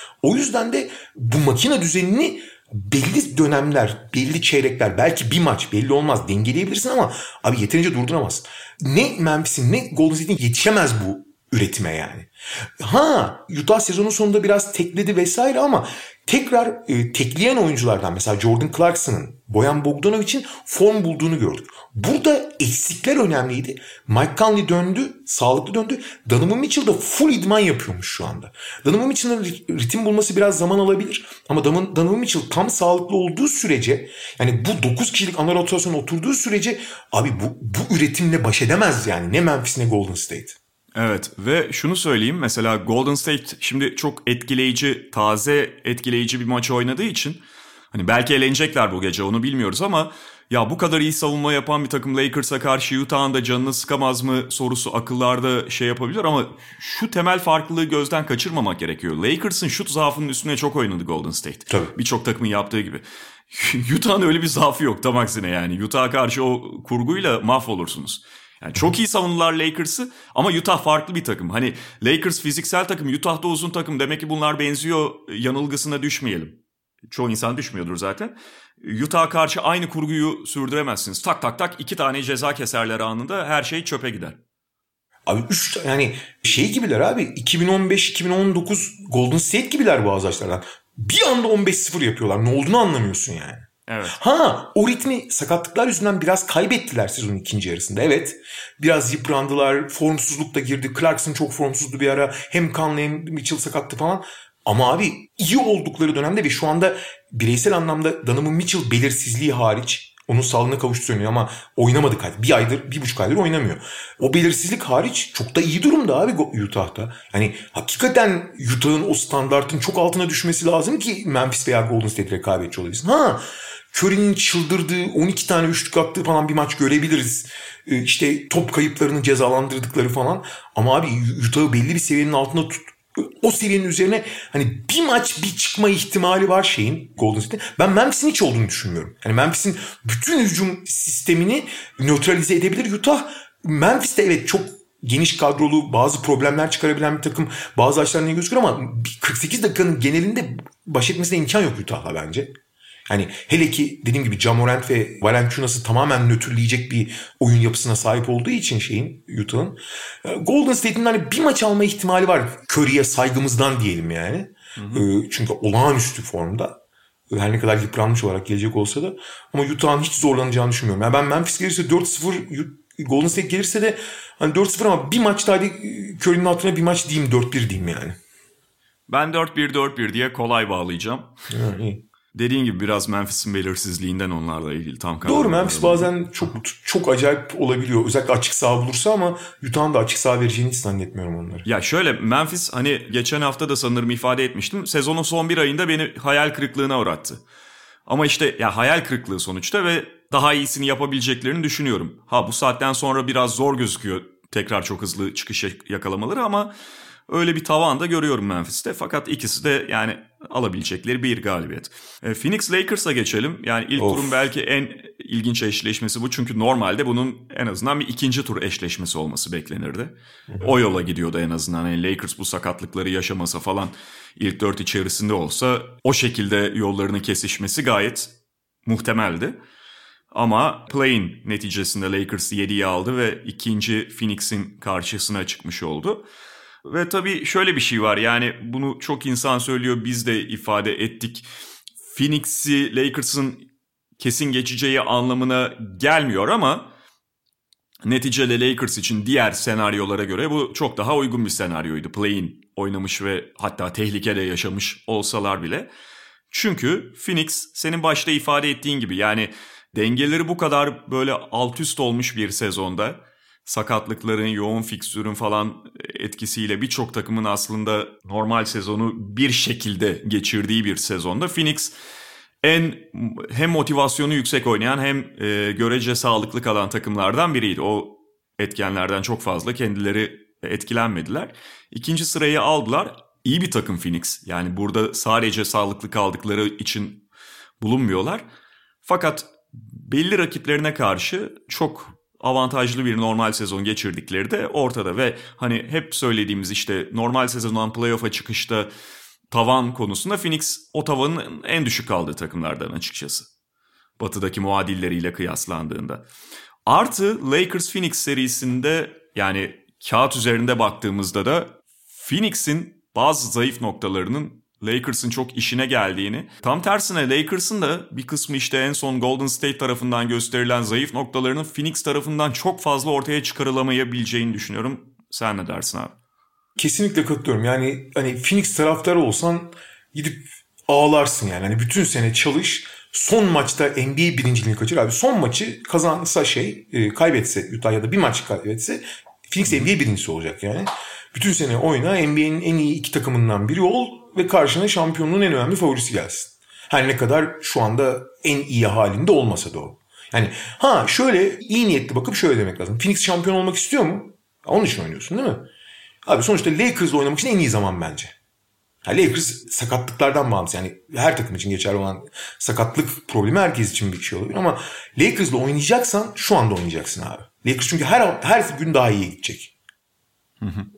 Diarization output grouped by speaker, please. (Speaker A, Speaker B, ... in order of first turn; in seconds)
Speaker A: 0.2-40.5, 85.2-152.5, 153.1-166.8, 167.3-178.2, 181.5-182.0, 185.2-191.7, 214.0-214.3, 326.8-355.7, 356.2-358.3, 359.0-369.7
Speaker B: 40.9-84.4, 93.9-94.2, 164.8-165.0, 179.1-181.3, 182.3-186.1, 191.7-197.4, 198.1-206.7, 207.3-228.3, 228.8-229.6, 230.3-236.2, 236.8-241.5, 242.1-243.7, 244.2-246.9, 248.0-255.9, 256.5-271.9, 272.6-287.2, 287.8-288.4, 289.0-298.9, 299.5-303.5, 304.2-306.2, 306.9-326.1, 370.6-370.9